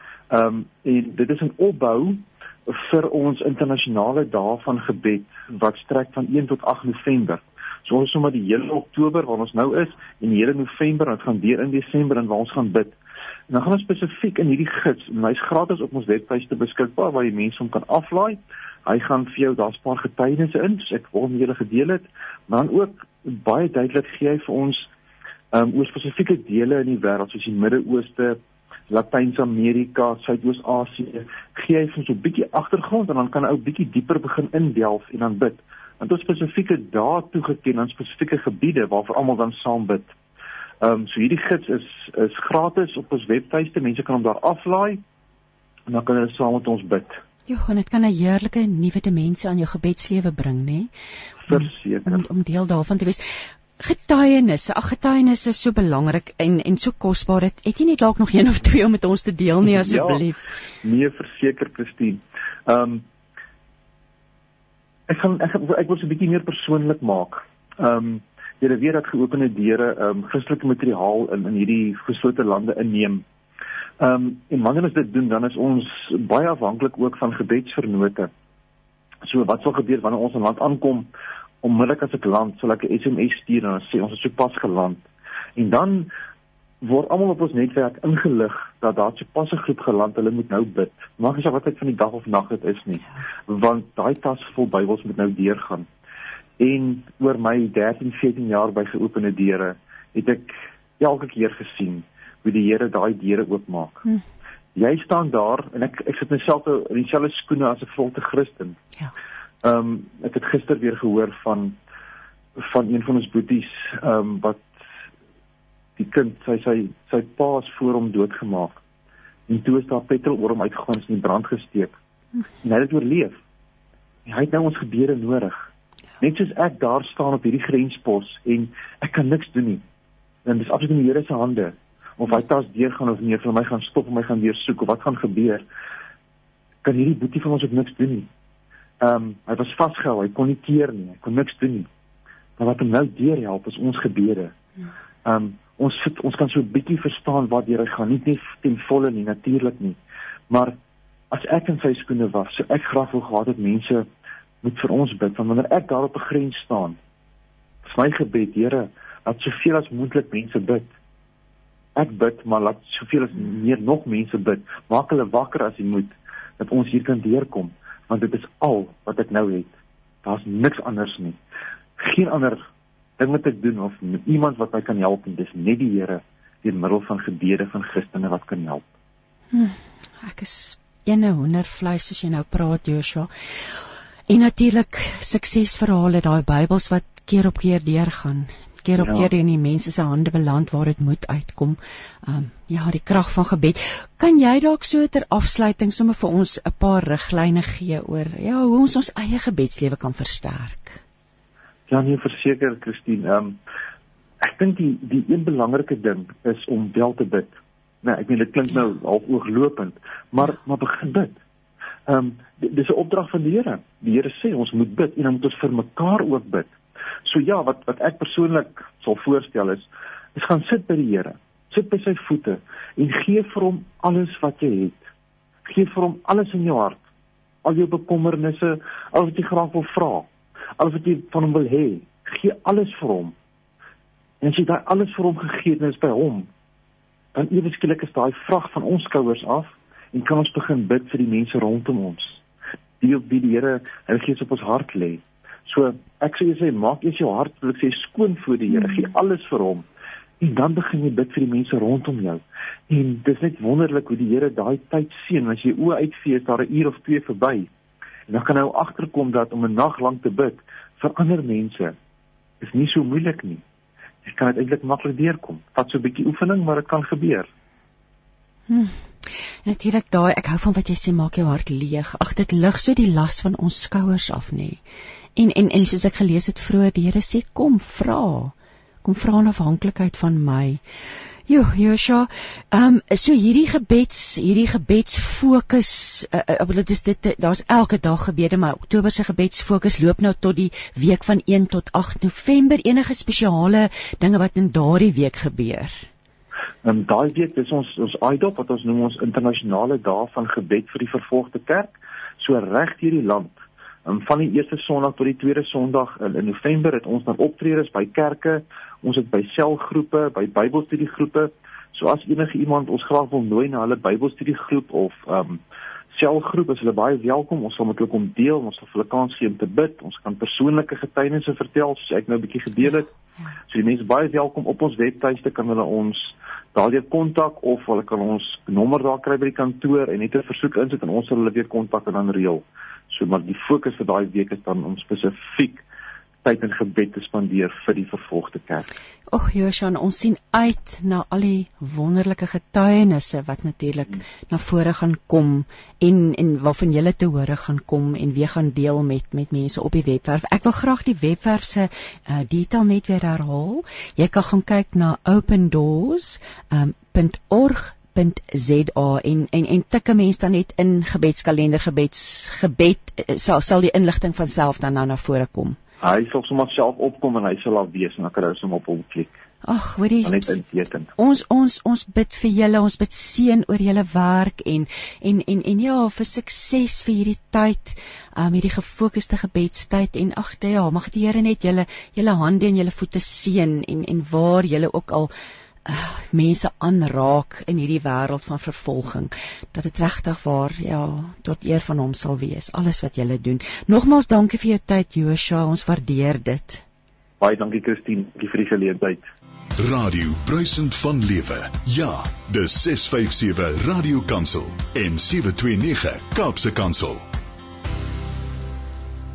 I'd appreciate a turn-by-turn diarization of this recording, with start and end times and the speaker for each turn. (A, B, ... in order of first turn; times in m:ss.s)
0:00.3-0:12.9 A
0:13.5-0:24.9 A
0:25.5-0:28.4 A
0:28.9-0:40.1 A
0:40.8-0:45.0 A
0:45.9-0:47.2 A
0:47.5-0:50.9 B
0:51.5-0:52.2 A
0:51.5-1:00.4 B
0:59.7-1:00.2 A
1:00.8-1:03.0 A
1:05.1-1:13.2 A
1:14.0-1:18.3 A
1:19.3-1:21.1 A
1:21.6-1:25.0 A
1:25.6-1:26.1 A
1:26.8-1:35.9 A
1:36.6-1:44.0 A
1:44.8-1:48.8 A
1:49.6-1:51.8 A
1:52.6-1:54.7 A
1:56.0-1:58.7 A
1:59.5-2:01.9 A
2:02.6-2:03.4 A
2:04.2-2:05.6 A
2:06.2-2:09.8 A
2:10.4-2:15.6 A
2:16.8-2:18.3 A
2:19.0-2:21.9 A
2:22.6-2:24.5 A
2:25.2-2:30.0 A
2:30.5-2:30.8 A
2:31.3-2:34.1 A
2:34.6-2:37.0 A
2:37.8-2:40.9 A
2:42.0-2:49.7 A
2:50.2-2:51.4 A
2:52.0-2:52.6 A
2:53.2-2:58.8 A
2:59.5-3:03.3 B
3:04.3-3:21.0 B
3:09.0-3:09.3 A
3:21.9-3:23.6 A
3:24.4-3:27.5 A
3:28.0-3:31.4 A
3:32.1-3:36.7 A
3:37.3-3:45.0 A
3:45.6-3:47.0 A
3:47.6-3:50.3 A
3:50.8-3:53.3 A
3:54.4-3:56.5 A
3:57.3-4:02.4 A
4:03.0-4:09.8 A
4:10.4-4:17.7 A
4:18.3-4:21.9 A
4:22.6-4:23.6 A
4:24.2-4:27.5 A
4:28.7-4:29.0 B
4:29.6-4:34.8 B
4:35.4-4:40.8 B
4:41.5-4:56.1 B
4:56.8-5:03.5 A
5:04.0-5:15.6 A
5:16.1-5:23.1 A
5:23.7-5:35.8 A
5:36.4-5:38.8 A
5:39.3-6:05.8 B
6:06.0-6:09.3 A
6:09.6-6:10.6 B
6:10.2-6:11.1 A
6:11.2-6:25.3 B
6:25.8-6:36.8 B
6:37.4-6:39.2 A
6:39.8-6:47.3 C